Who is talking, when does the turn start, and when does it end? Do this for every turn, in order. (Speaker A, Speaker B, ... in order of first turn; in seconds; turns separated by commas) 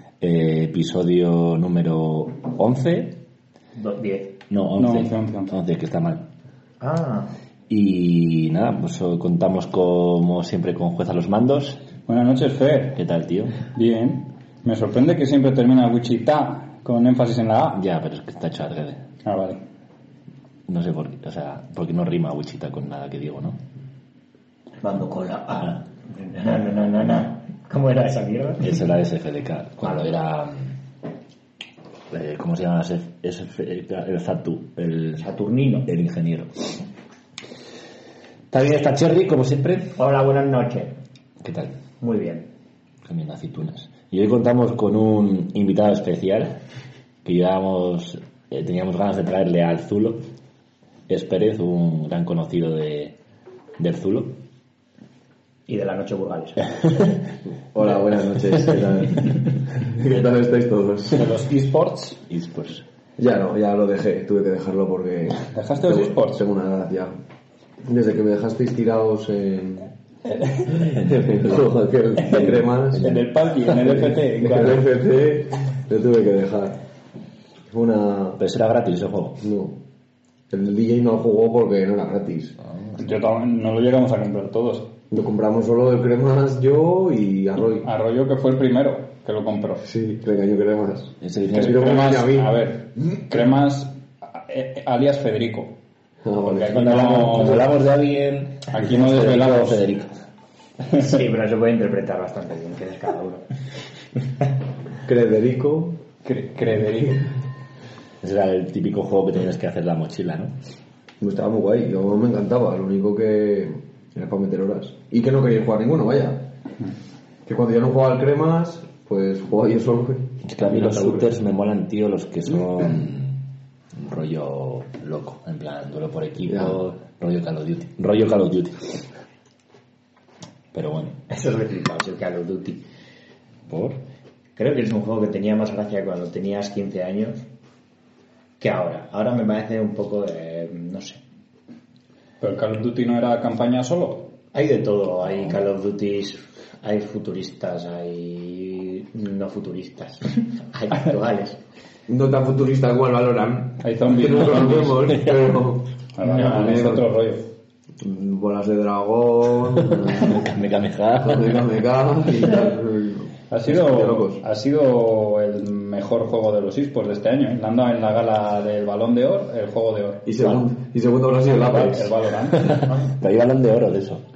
Speaker A: 0.2-3.2, Speaker B: 3.8-4.4, Speaker A: 4.5-6.2, Speaker C: 4.8-5.5, Speaker B: 6.8-7.3, Speaker A: 7.7-11.8, Speaker C: 12.1-13.0, Speaker A: 13.0-13.6, Speaker C: 13.7-17.8, Speaker A: 17.7-19.0, Speaker C: 19.2-19.6, Speaker A: 20.7-23.6, Speaker B: 24.8-28.8, Speaker A: 28.6-30.7, Speaker B: 29.8-30.1, Speaker A: 32.1-35.2, Speaker B: 35.2-35.9, Speaker A: 35.9-36.8, Speaker A: 38.5-40.0, Speaker B: 40.0-40.9, Speaker A: 41.4-41.7, Speaker B: 42.0-42.5, Speaker A: 43.0-46.6, Speaker A: 47.2-50.2, Speaker A: 51.1-53.1, Speaker A: 53.8-54.4, Speaker B: 55.7-57.0, Speaker D: 57.7-61.4, Speaker C: 61.1-62.2, Speaker A: 62.3-62.8, Speaker D: 63.2-67.2, Speaker C: 65.5-66.4, Speaker D: 67.8-69.9, Speaker D: 70.7-76.8, Speaker A: 70.8-71.5, Speaker A: 72.9-73.2, Speaker C: 73.0-74.8, Speaker D: 77.7-78.4, Speaker A: 78.4-79.4, Speaker D: 79.4-79.8, Speaker D: 80.5-82.6, Speaker C: 83.0-84.9, Speaker D: 85.1-87.9, Speaker C: 87.8-89.8, Speaker D: 89.8-92.7, Speaker A: 91.2-92.0, Speaker C: 91.5-95.8, Speaker D: 96.2-97.7, Speaker C: 96.5-97.7, Speaker A: 96.7-100.1, Speaker C: 98.7-99.8, Speaker B: 100.9-103.5, Speaker D: 105.0-106.0, Speaker C: 106.2-107.3, Speaker A: 108.2-110.5, Speaker D: 111.2-116.5, Speaker D: 117.5-121.3, Speaker A: 120.4-123.4, Speaker A: 123.9-129.1, Speaker D: 126.5-126.9, Speaker A: 130.7-131.2, Speaker B: 131.3-132.8, Speaker A: 133.7-134.0, Speaker B: 134.6-137.4, Speaker B: 138.6-141.2, Speaker C: 142.4-144.3, Speaker B: 144.5-151.6, Speaker D: 152.1-157.1, Speaker C: 153.8-155.2, Speaker C: 156.2-157.5, Speaker B: 156.2-156.7, Speaker D: 158.0-160.4, Speaker A: 159.8-161.6, Speaker D: 161.2-164.4, Speaker C: 163.5-170.4, Speaker D: 170.2-172.1, Speaker C: 171.5-172.8, Speaker A: 171.7-174.2, Speaker B: 172.9-173.1